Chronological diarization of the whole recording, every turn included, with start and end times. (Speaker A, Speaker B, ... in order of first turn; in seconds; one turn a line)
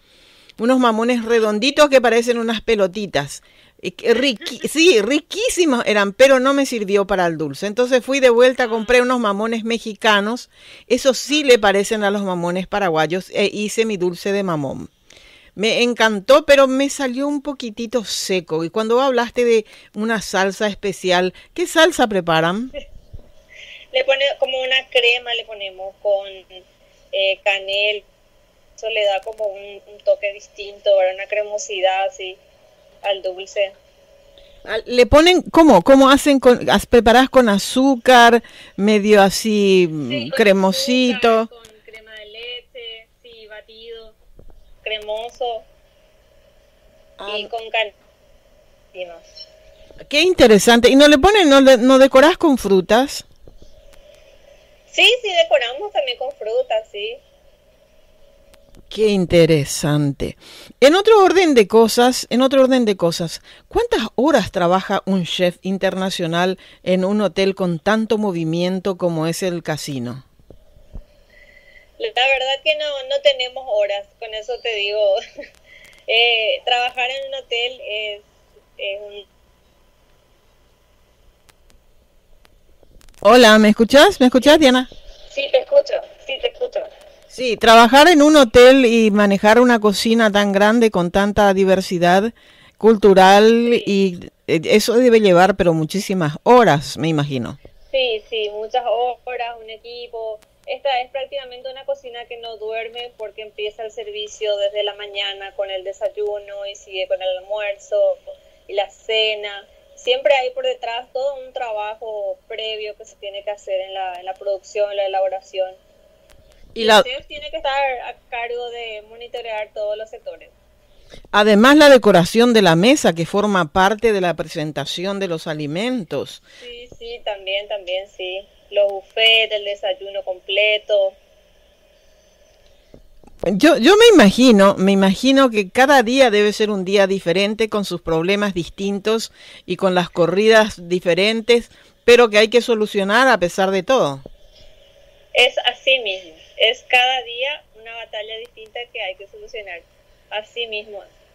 Speaker A: 0.6-14.9
Speaker B: 8.6-9.0
Speaker A: 15.6-22.7
Speaker B: 23.9-28.0
Speaker B: 28.8-32.4
Speaker B: 33.0-33.8
Speaker A: 34.6-41.5
Speaker B: 40.0-44.1
Speaker B: 44.8-45.7
Speaker A: 47.2-47.5
Speaker B: 47.3-47.9
Speaker B: 48.9-49.3
Speaker A: 50.0-53.2
Speaker B: 54.9-57.2
Speaker A: 58.9-70.2
Speaker B: 72.0-75.2
Speaker B: 76.1-78.2
Speaker B: 78.8-79.2
Speaker A: 83.2-84.9
Speaker B: 85.3-86.9
Speaker A: 87.3-97.6
Speaker B: 93.7-93.9
Speaker B: 97.9-115.8
Speaker A: 116.7-117.0
Speaker B: 116.8-120.5
Speaker A: 121.3-126.4
Speaker B: 126.6-131.2
Speaker A: 133.4-144.2
Speaker B: 145.3-151.1